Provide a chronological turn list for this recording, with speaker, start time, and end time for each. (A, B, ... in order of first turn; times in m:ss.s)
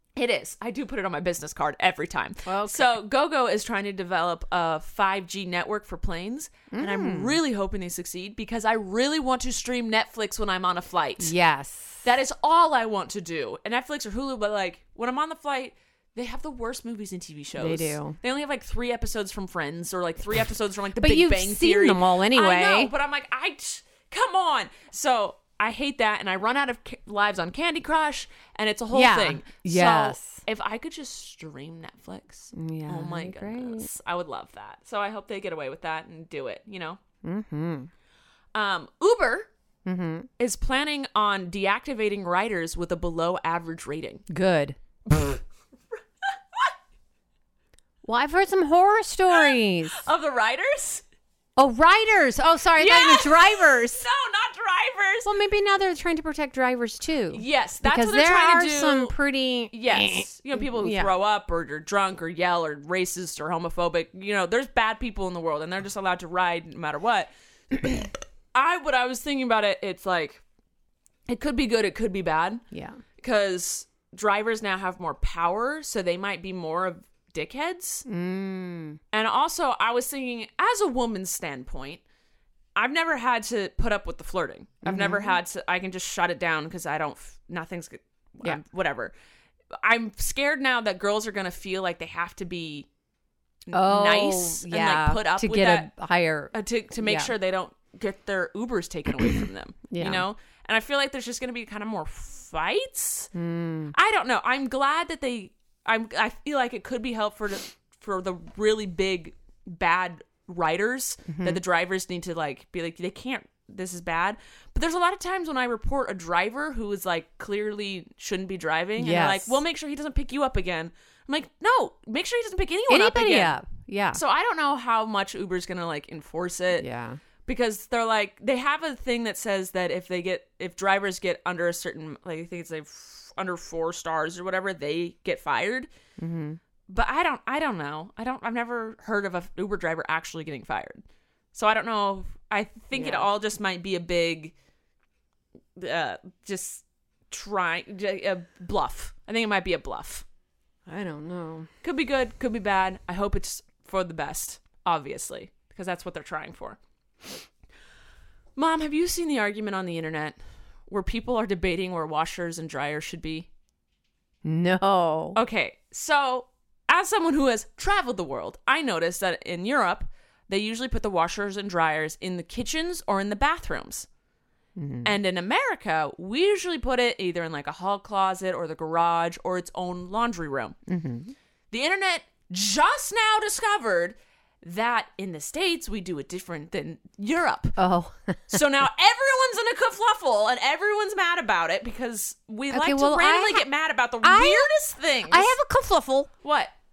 0:00.2-0:11.3 A
0:02.4-0:02.9 B
0:06.7-0:07.4 B
0:11.2-0:12.1 B
0:12.0-0:37.0 A
0:17.6-0:18.2 B
0:21.0-0:22.9 B
0:28.9-0:30.4 B
0:32.5-0:33.9 B
0:37.2-0:37.9 B
0:38.6-0:39.5 A
0:39.9-0:40.3 B
0:40.4-0:44.2 A
0:44.3-0:45.4 B
0:48.0-0:50.0 B
0:49.3-0:51.0 A
0:51.6-0:54.0 B
0:52.8-0:55.3 A
0:55.2-1:01.1 B
0:57.3-0:59.1 A
0:59.7-1:10.4 A
1:11.3-1:12.6 A
1:12.7-1:13.0 B
1:13.2-1:18.0 A
1:18.1-1:19.0 B
1:19.1-1:22.0 A
1:22.8-1:29.1 A
1:24.8-1:25.4 B
1:29.8-1:32.9 A
1:33.7-1:35.9 A
1:33.7-1:37.3 B
1:36.5-1:43.3 A
1:39.9-1:40.2 B
1:43.3-1:43.9 B
1:43.9-2:03.6 A
1:51.3-1:51.6 B
1:59.0-1:59.6 B
2:02.9-2:04.2 B
2:04.1-2:06.8 A
2:06.8-2:07.2 B
2:07.5-2:15.9 A
2:16.2-2:16.6 B
2:16.9-2:21.0 A
2:21.5-2:24.5 A
2:22.9-2:23.3 B
2:25.8-2:30.2 A
2:30.9-2:31.7 B
2:31.8-2:36.8 A
2:38.6-2:40.4 A
2:40.9-2:43.5 A
2:44.4-2:45.4 B
2:45.4-2:54.1 A
2:54.8-2:55.1 B
2:55.0-3:00.8 A
3:00.9-3:01.3 B
3:01.7-3:07.8 A
3:07.8-3:08.6 B
3:08.5-3:15.5 A
3:12.7-3:13.6 B
3:14.2-3:14.7 B
3:15.3-3:16.3 B
3:16.4-3:16.7 A